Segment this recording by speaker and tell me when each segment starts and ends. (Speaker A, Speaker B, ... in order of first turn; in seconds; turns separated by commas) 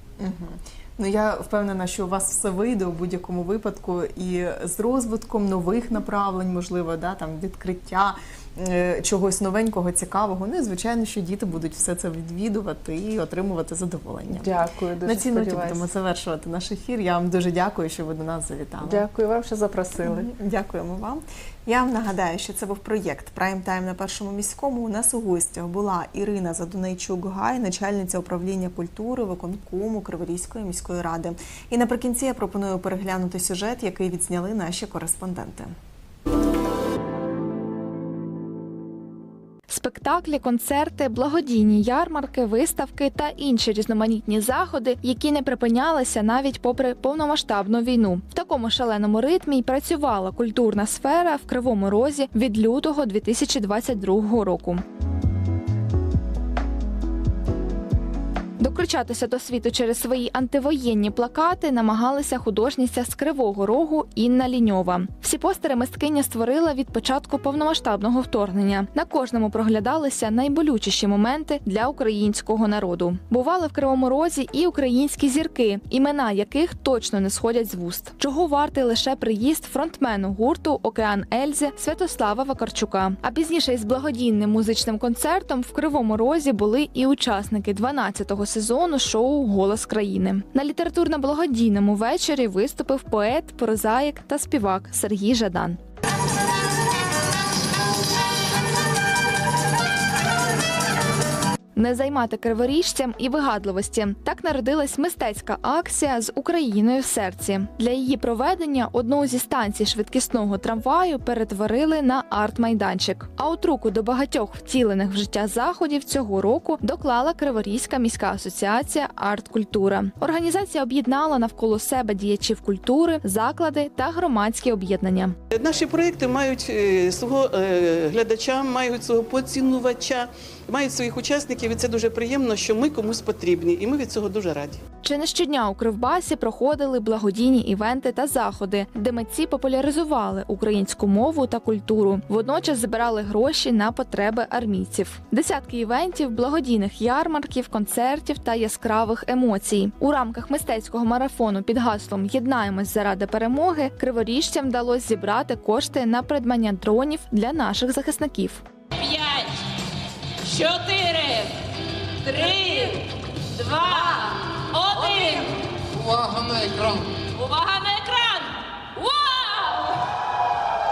Speaker A: 0.2-14.5, Speaker B: 14.3-15.8, Speaker A: 15.0-19.1, Speaker B: 18.8-20.3, Speaker A: 20.0-35.7, Speaker C: 39.7-54.8, Speaker C: 58.6-95.8, Speaker C: 101.8-125.3, Speaker D: 125.5-134.8, Speaker C: 135.0-158.6, Speaker E: 159.0-159.6, Speaker E: 160.4-161.6, Speaker E: 162.2-165.5, Speaker E: 167.2-170.0